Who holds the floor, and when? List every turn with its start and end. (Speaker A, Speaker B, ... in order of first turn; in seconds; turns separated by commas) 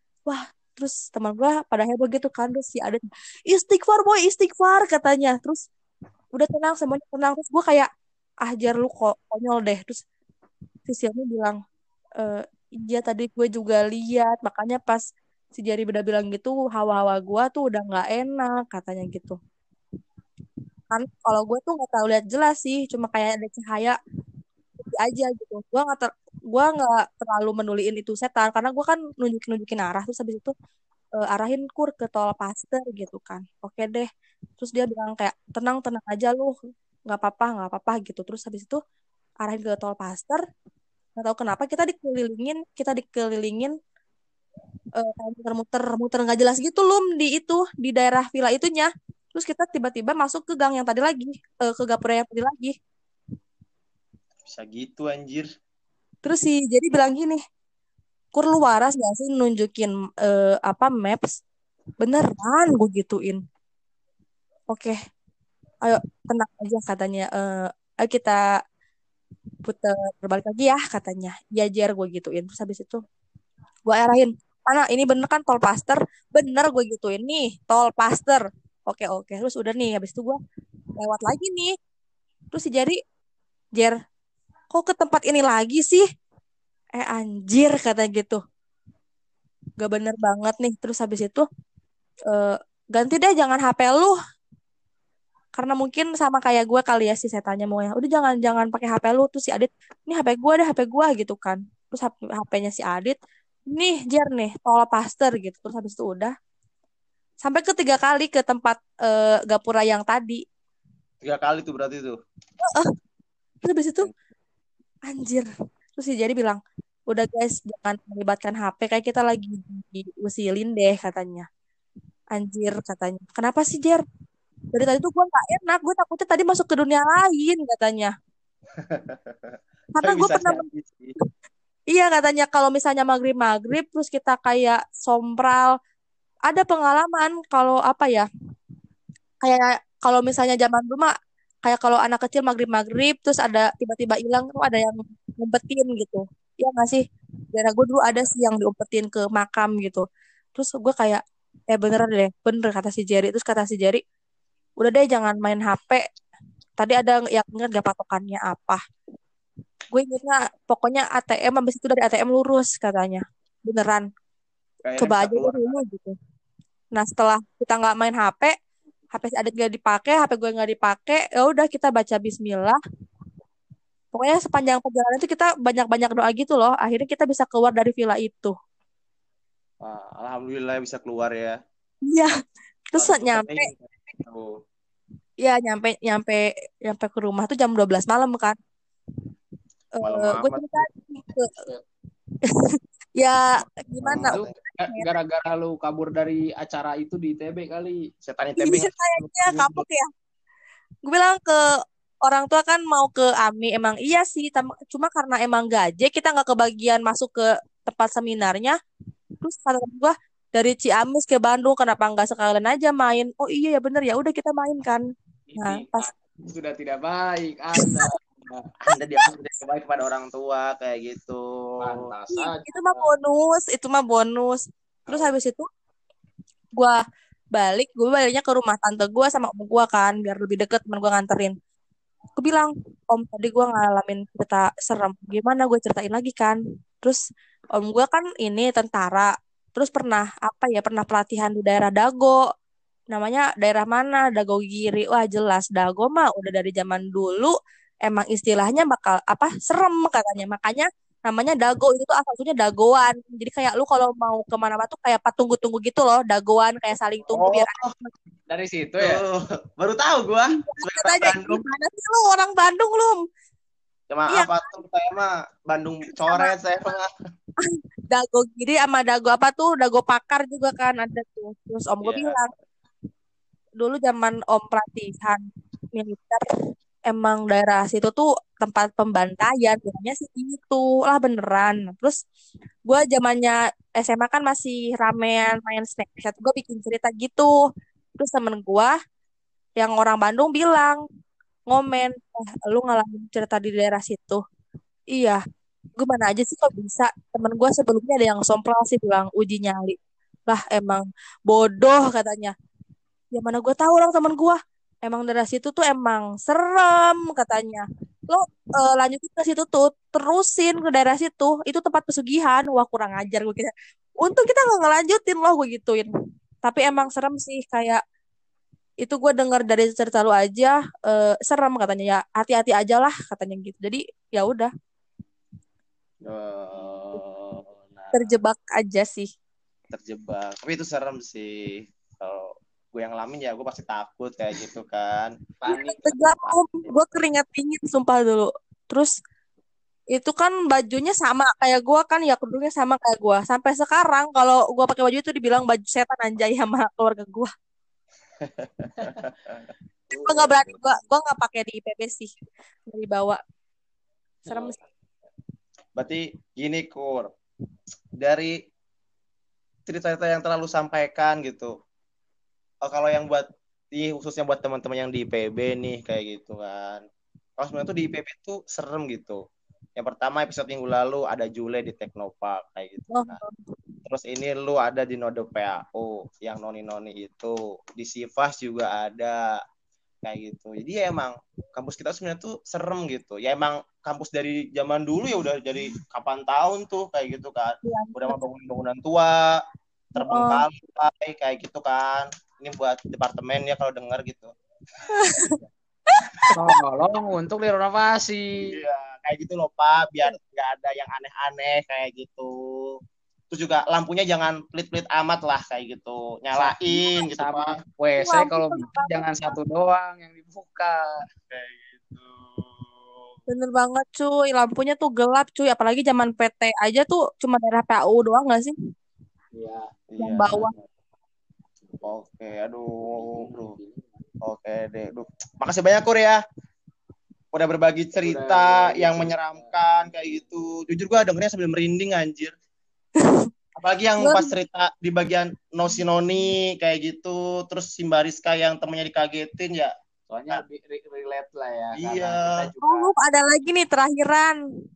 Speaker A: 0.3-5.6, Speaker A: 6.3-7.9, Speaker A: 8.4-10.0, Speaker A: 10.9-11.6, Speaker A: 12.2-15.0, Speaker A: 15.5-19.4, Speaker A: 20.9-23.9, Speaker A: 24.8-30.5, Speaker A: 31.3-34.1, Speaker A: 34.6-36.5, Speaker A: 37.1-38.8, Speaker A: 39.4-40.4, Speaker A: 41.2-43.7, Speaker A: 45.0-52.7, Speaker B: 54.5-55.5, Speaker A: 56.2-57.4, Speaker A: 58.3-61.4, Speaker A: 62.0-63.4, Speaker A: 64.7-65.0, Speaker A: 65.8-68.4, Speaker A: 69.6-73.0, Speaker A: 73.8-80.4, Speaker A: 81.0-81.7, Speaker A: 82.5-83.0, Speaker A: 84.7-86.0, Speaker A: 86.9-88.4, Speaker A: 89.8-91.4, Speaker A: 92.3-94.1, Speaker A: 95.5-103.1, Speaker A: 103.7-106.3, Speaker A: 107.4-110.4, Speaker B: 111.2-112.2, Speaker A: 112.6-112.9, Speaker A: 113.6-114.1, Speaker A: 115.1-115.5, Speaker A: 116.0-121.5, Speaker A: 122.3-124.0, Speaker A: 124.7-128.1, Speaker B: 128.8-131.1, Speaker A: 129.9-130.6, Speaker A: 131.9-135.7, Speaker A: 136.5-138.3, Speaker A: 139.4-141.1, Speaker A: 141.6-147.0, Speaker A: 147.5-150.0, Speaker A: 150.6-154.0, Speaker A: 154.8-156.0, Speaker A: 156.8-158.8, Speaker A: 159.9-164.0, Speaker B: 164.8-165.8, Speaker A: 165.0-166.1, Speaker A: 166.9-168.5, Speaker A: 169.1-172.8, Speaker A: 174.1-178.5, Speaker B: 179.8-181.6, Speaker A: 182.9-183.7, Speaker B: 182.9-184.6, Speaker A: 185.4-188.6, Speaker A: 189.9-191.6, Speaker B: 190.0-190.9, Speaker A: 192.4-195.1, Speaker B: 194.0-194.5, Speaker C: 194.2-198.1, Speaker B: 198.2-199.8, Speaker A: 198.6-200.1, Speaker A: 201.0-201.6, Speaker A: 202.2-208.7, Speaker A: 209.4-215.0, Speaker C: 215.5-218.7, Speaker A: 215.6-216.1, Speaker A: 217.8-218.1, Speaker B: 218.8-222.1, Speaker C: 221.8-223.1, Speaker A: 222.3-225.6, Speaker A: 227.5-231.5, Speaker A: 232.4-237.2, Speaker A: 237.8-242.4, Speaker A: 243.1-247.5, Speaker A: 248.0-258.1, Speaker B: 257.3-257.9, Speaker C: 258.5-259.2, Speaker B: 259.0-261.6, Speaker A: 260.6-263.2, Speaker B: 264.1-267.1, Speaker A: 264.3-264.6, Speaker A: 266.2-266.5, Speaker A: 267.6-272.5, Speaker B: 272.0-272.4, Speaker A: 273.8-275.4, Speaker A: 275.9-276.5, Speaker A: 277.1-282.2, Speaker A: 282.9-287.5, Speaker A: 288.2-288.9, Speaker A: 289.8-291.0, Speaker A: 291.7-294.4, Speaker A: 295.1-295.4, Speaker A: 296.0-302.5, Speaker A: 303.3-316.1, Speaker A: 316.6-318.0, Speaker A: 319.0-324.7, Speaker B: 326.2-328.3, Speaker C: 326.7-327.0, Speaker A: 328.1-329.3, Speaker B: 329.9-335.4, Speaker C: 335.6-336.6, Speaker A: 335.7-339.1, Speaker A: 340.1-347.5, Speaker B: 348.4-349.6, Speaker A: 350.1-352.3, Speaker B: 350.1-350.8, Speaker A: 352.9-353.4, Speaker C: 354.5-354.7, Speaker A: 354.5-354.8, Speaker B: 355.9-357.3, Speaker B: 358.2-358.5, Speaker B: 359.9-361.7, Speaker B: 362.8-367.0, Speaker B: 367.6-369.4, Speaker B: 370.0-373.4, Speaker A: 373.1-373.6, Speaker B: 374.0-379.6, Speaker B: 380.2-389.6, Speaker A: 387.8-388.4, Speaker B: 390.1-394.5, Speaker A: 390.2-390.6, Speaker A: 395.1-395.6, Speaker A: 396.1-396.5, Speaker C: 396.5-398.7, Speaker B: 398.7-403.0, Speaker B: 403.5-407.8, Speaker C: 406.5-411.2, Speaker A: 408.2-409.5, Speaker B: 411.5-413.3, Speaker A: 413.5-418.7, Speaker C: 419.5-419.9, Speaker B: 420.1-420.7, Speaker A: 420.2-420.7, Speaker B: 422.0-423.7, Speaker C: 423.0-424.2, Speaker B: 424.4-426.4, Speaker B: 427.5-432.5, Speaker C: 428.1-430.7, Speaker A: 433.2-433.5, Speaker B: 433.8-439.9, Speaker A: 434.2-434.5, Speaker C: 440.3-443.1, Speaker B: 441.9-442.6, Speaker A: 442.8-444.6